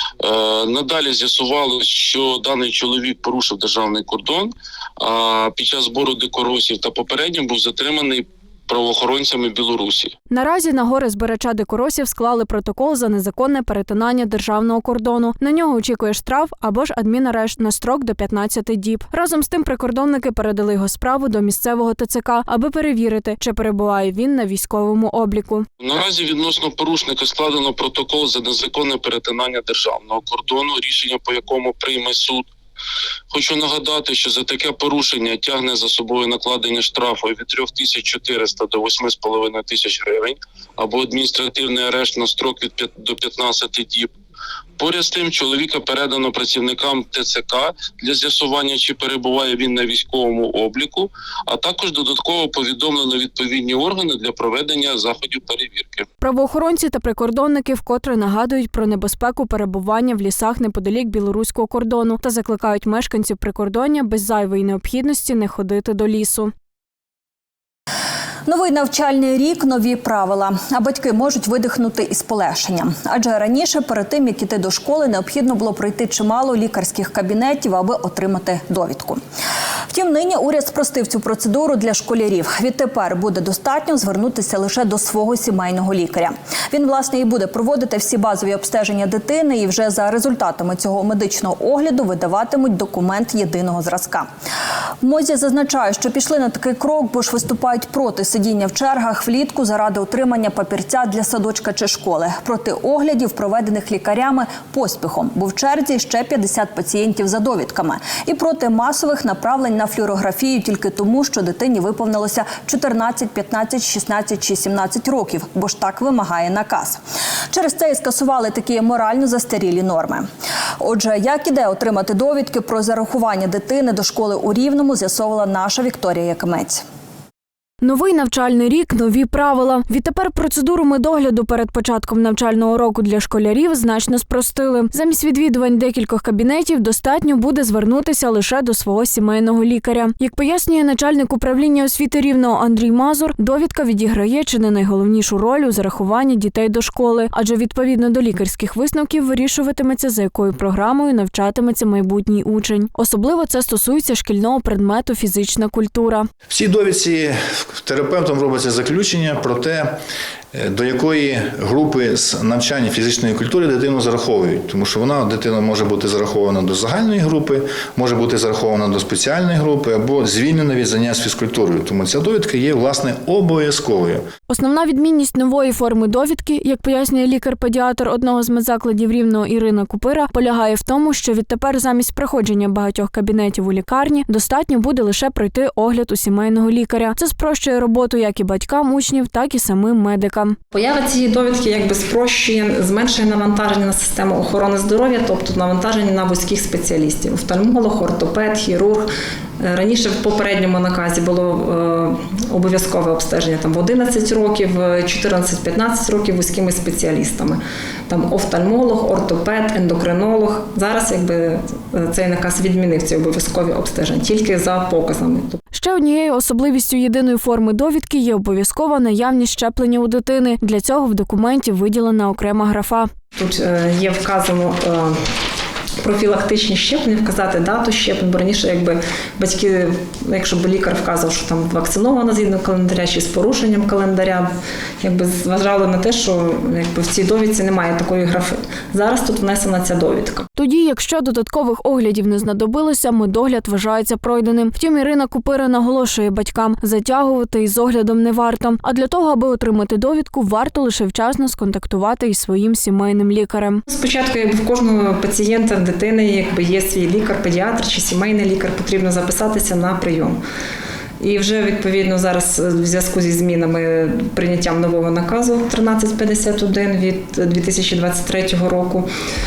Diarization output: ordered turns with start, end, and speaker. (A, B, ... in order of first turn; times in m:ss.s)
0:00.2-0:10.1 A
0:10.3-0:25.7 B
0:25.8-0:32.5 A
0:33.3-0:44.1 A
0:44.8-0:56.0 A
0:56.2-1:06.5 B
1:08.5-1:19.2 C
1:19.9-1:34.3 C
1:35.0-2:00.3 C
2:00.8-2:06.8 C
2:07.8-2:36.3 B
2:36.5-2:40.0 D
2:40.5-2:54.3 D
2:54.5-3:10.6 B
3:10.7-3:19.1 E
3:19.6-3:35.6 E
3:35.7-3:43.1 B
3:43.4-3:45.2 E
3:46.0-3:54.5 E
3:55.0-4:00.5 E
4:00.6-4:13.8 B
4:13.9-4:20.4 E
4:21.2-4:29.1 E